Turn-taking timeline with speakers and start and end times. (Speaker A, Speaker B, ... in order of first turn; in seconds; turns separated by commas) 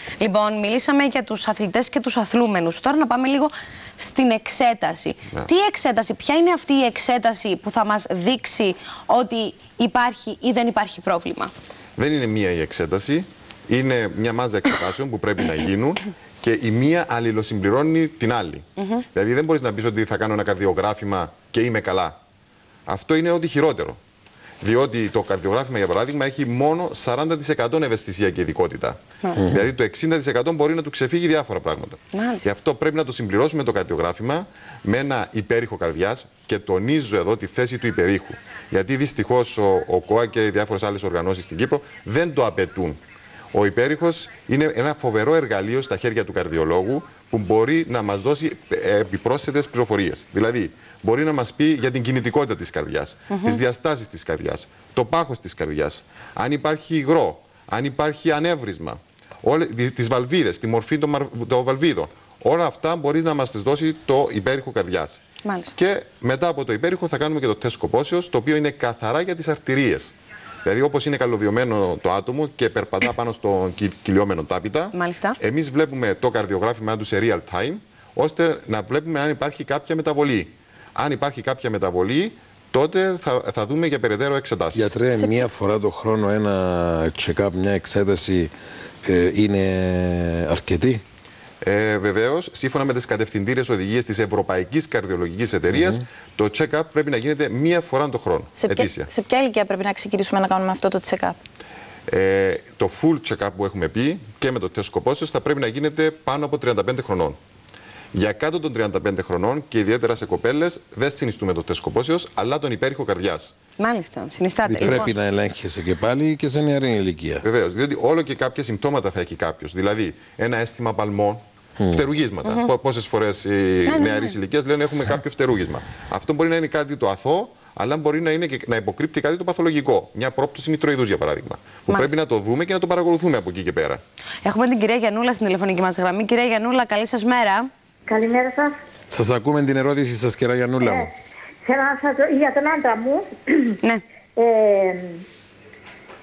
Speaker A: 0.2-11.5, Speaker B: 12.0-22.2, Speaker A: 18.8-19.0, Speaker B: 22.9-24.0, Speaker B: 24.6-43.0, Speaker C: 29.4-29.6, Speaker A: 32.1-32.4, Speaker B: 43.5-65.2, Speaker A: 53.3-53.6, Speaker A: 65.4-65.7, Speaker B: 65.7-70.1, Speaker B: 70.6-85.0, Speaker A: 74.9-75.4, Speaker C: 84.7-88.5, Speaker C: 89.0-91.0, Speaker B: 91.6-99.1, Speaker C: 95.7-96.0, Speaker D: 98.6-101.4, Speaker B: 102.1-107.4, Speaker B: 108.1-113.5, Speaker A: 113.8-115.1, Speaker C: 114.6-117.4, Speaker B: 117.4-134.0, Speaker C: 121.8-122.0, Speaker A: 122.4-122.7, Speaker A: 123.8-124.3, Speaker A: 134.4-137.7, Speaker E: 138.1-138.7, Speaker C: 139.1-141.1, Speaker E: 140.8-141.1, Speaker E: 141.6-143.8, Speaker E: 144.3-145.2